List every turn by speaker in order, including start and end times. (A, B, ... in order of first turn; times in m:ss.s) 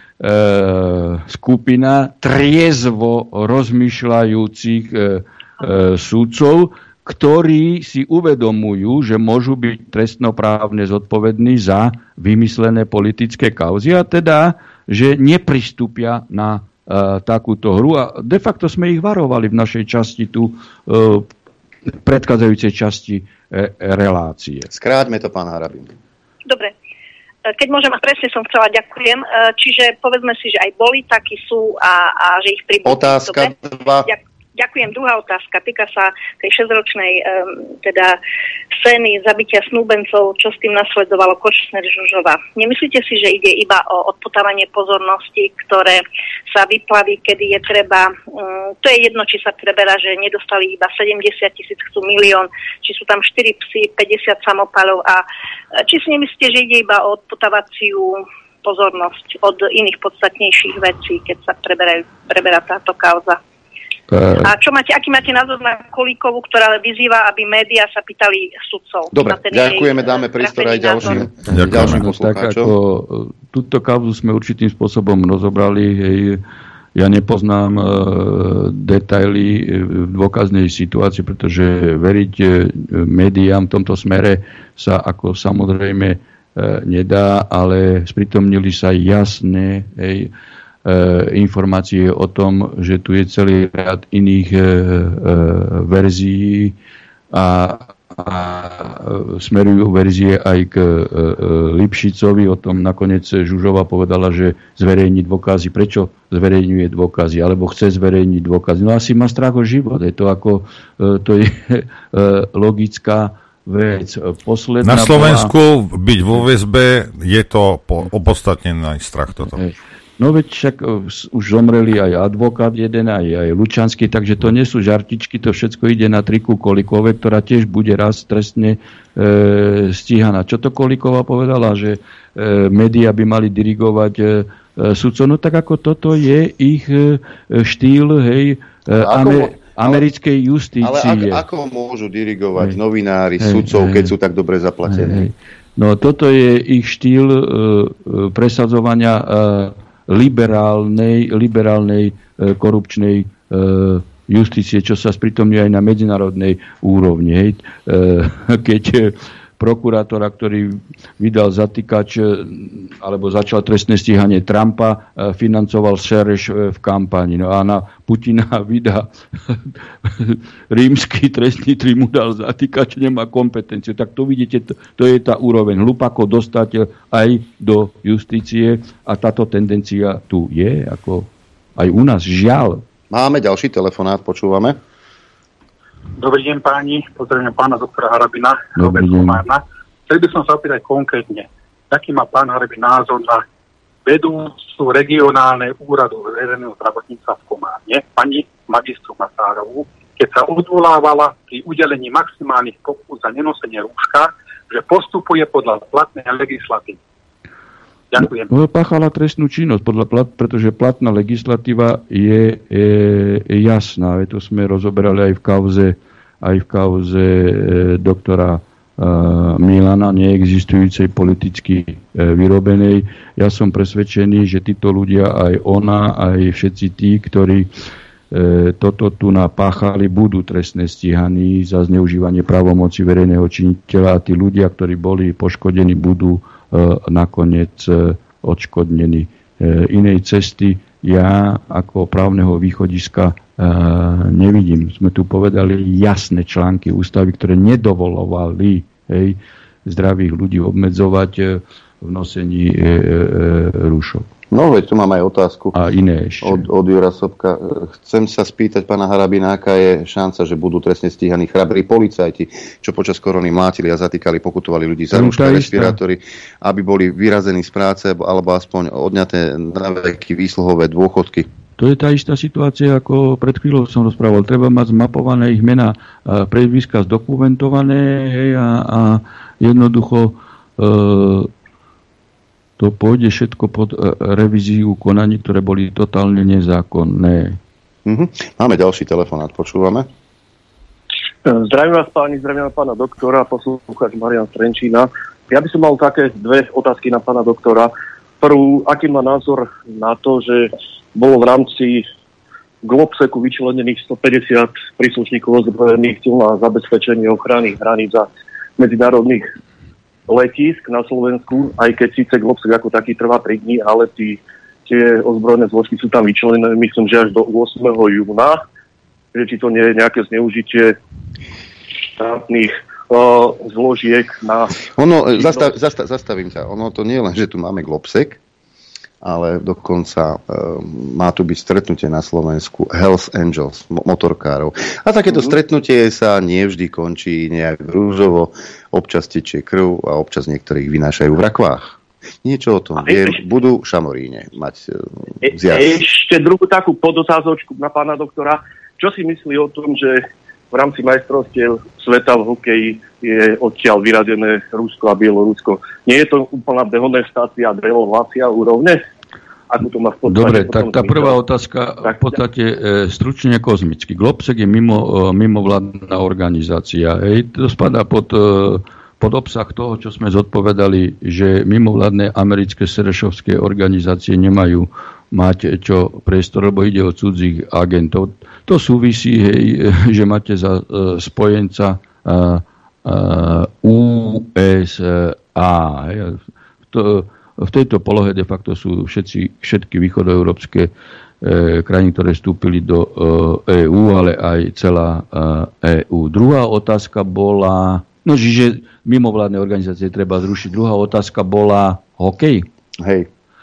0:00.2-0:21.3 A
0:21.9-0:24.7 A
0:24.7-0:25.9 B
0:26.5-0:26.7 C
0:27.5-0:38.2 C
0:32.8-0:34.1 B
0:38.8-0:46.0 C
0:46.6-0:48.1 C
0:48.8-0:55.2 C
0:55.8-1:03.4 C
1:04.1-1:04.5 A
1:04.4-1:11.3 C
1:09.1-1:12.8 B
1:11.4-1:16.4 A
1:11.5-1:12.0 D
1:17.0-1:30.3 A
1:30.9-1:36.7 A
1:37.3-1:55.5 A
1:54.8-1:59.6 D
1:59.5-2:21.4 A
2:18.9-2:20.0 B
2:20.8-2:25.3 B
2:23.4-2:24.1 A
2:24.8-3:02.8 A
3:03.1-3:04.8 B
3:06.2-3:13.4 E
3:08.8-3:09.4 A
3:14.1-3:27.0 E
3:28.1-3:28.5 E
3:28.5-3:47.7 A
3:48.3-4:14.3 A
4:14.5-4:15.8 B
4:15.7-4:16.7 A
4:16.4-4:31.5 B
4:25.1-4:26.0 A
4:31.8-4:41.5 A
4:42.8-4:47.6 A
4:48.1-4:50.1 B
4:51.4-5:02.1 F
5:02.8-5:09.5 F
5:10.3-5:18.6 F
5:19.4-5:21.0 F
5:22.2-5:24.8 F
5:25.0-5:28.4 B
5:25.3-5:25.7 F
5:29.2-5:46.0 B
5:43.1-5:43.3 F
5:45.5-5:59.0 F
5:59.7-6:01.3 F
6:00.2-6:26.4 A
6:26.9-6:30.9 A
6:31.4-6:42.7 A
6:43.0-6:43.3 B